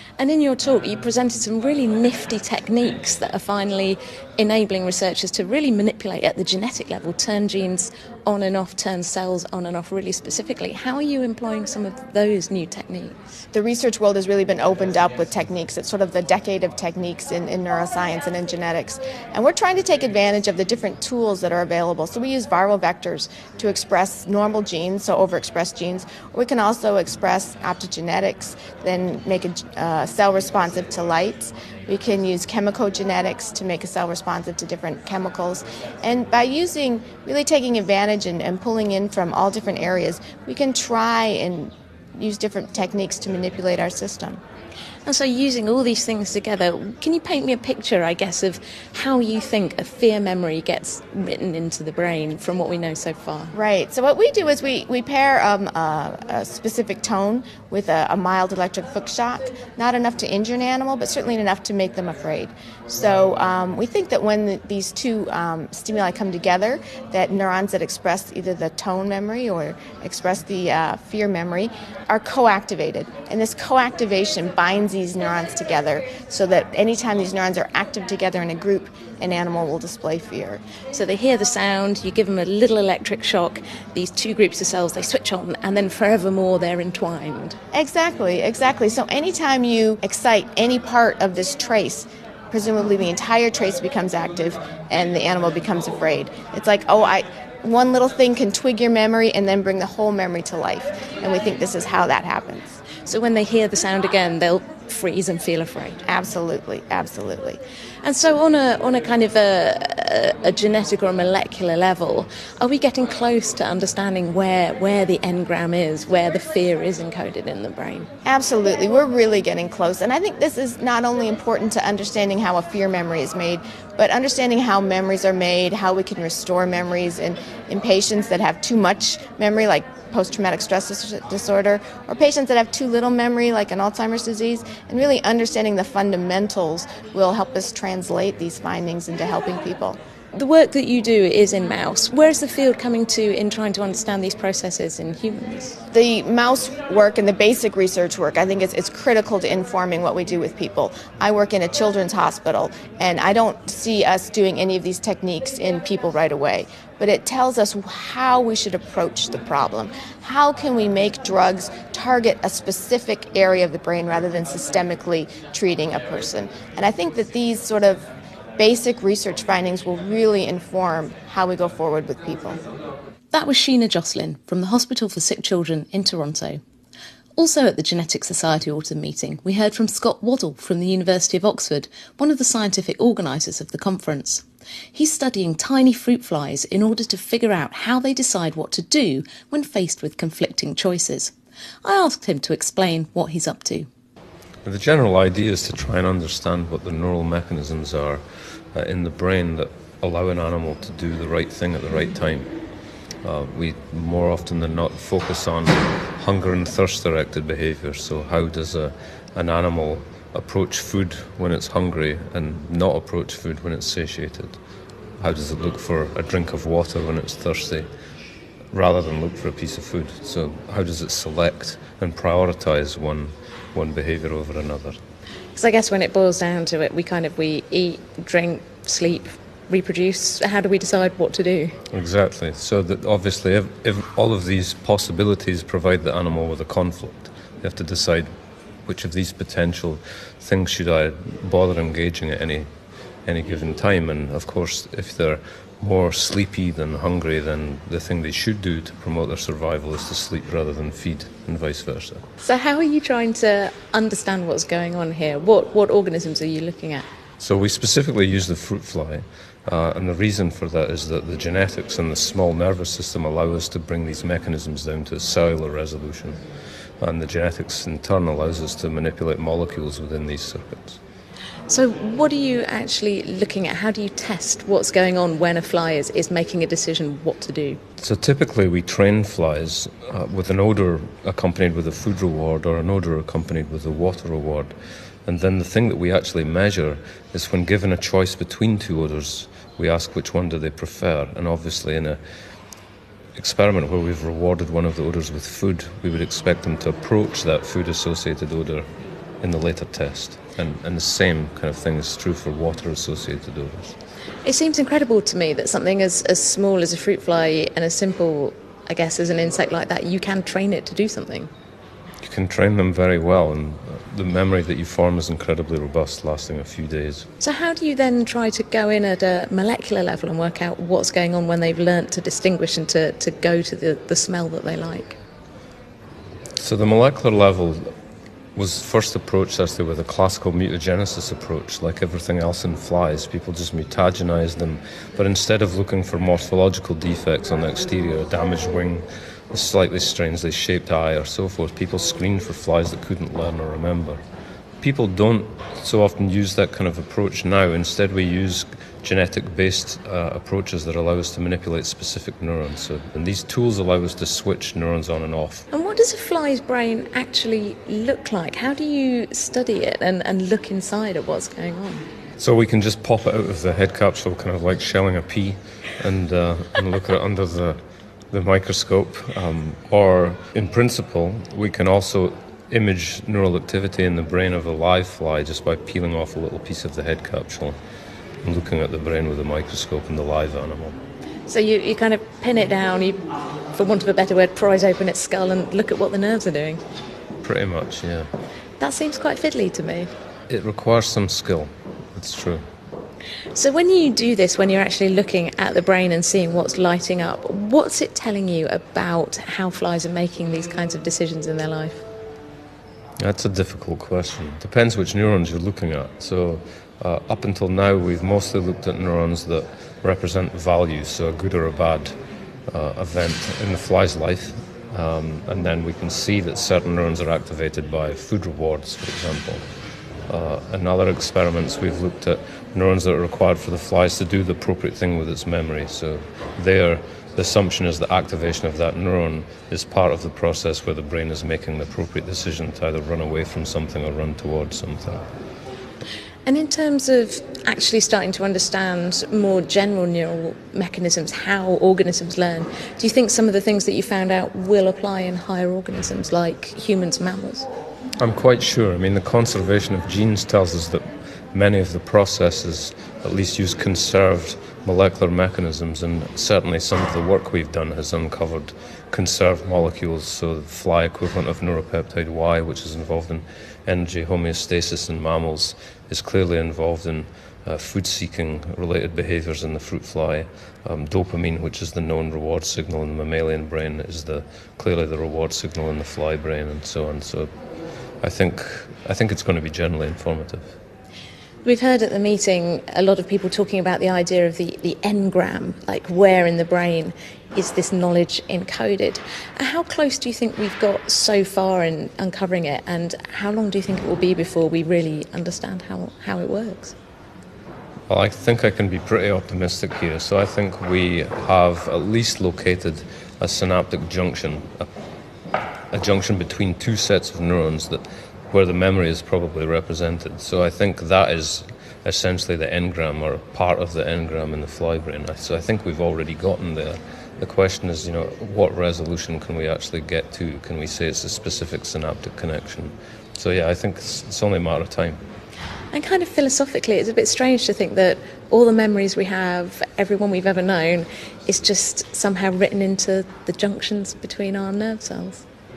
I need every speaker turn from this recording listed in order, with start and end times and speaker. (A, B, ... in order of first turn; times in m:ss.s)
0:00.2-0:13.2 A
0:13.5-0:44.4 B
0:45.0-0:53.5 A
0:53.5-1:20.6 B
1:20.9-1:27.6 A
1:27.7-1:42.8 B
1:43.0-1:46.0 A
1:46.0-1:47.6 B
1:48.0-1:58.1 A
1:58.2-2:20.0 B
2:20.3-2:25.8 A
2:25.9-2:48.0 B
2:48.6-2:52.6 B
2:53.3-2:56.6 A
2:57.4-3:13.9 A
3:14.6-3:18.2 C
3:18.7-3:22.5 C
3:23.2-3:34.6 C
3:35.2-3:37.9 C
3:38.7-3:45.0 C
3:45.5-3:51.8 A
3:51.9-3:58.3 C
3:58.8-4:02.7 C
4:03.2-4:12.2 C
4:12.4-4:17.1 A
4:17.4-4:26.4 C
4:27.0-4:31.0 C
4:31.7-4:37.8 A
4:38.0-4:44.7 C
4:45.2-4:52.2 C
4:53.4-4:58.8 C
4:59.4-5:04.0 C
5:04.4-5:11.5 A
5:12.2-5:17.3 C
5:17.4-5:25.2 A
5:26.6-5:27.9 C
5:28.5-5:44.2 C
5:44.8-5:55.6 C
5:55.7-6:02.0 A
6:02.4-6:07.8 C
6:08.3-6:17.8 C
6:18.4-6:21.0 C
6:21.5-6:26.8 A
6:27.4-6:28.3 C
6:28.8-6:30.1 A
6:30.5-6:32.6 C
6:33.5-6:42.0 A
6:43.2-6:52.1 C
6:52.7-6:59.7 C
7:00.3-7:15.2 C
7:16.4-7:27.7 A
7:28.2-7:57.5 C
7:58.2-8:00.7 C
8:01.6-8:16.9 A
8:18.1-8:24.9 C
8:25.9-8:45.2 C
8:45.9-8:55.4 A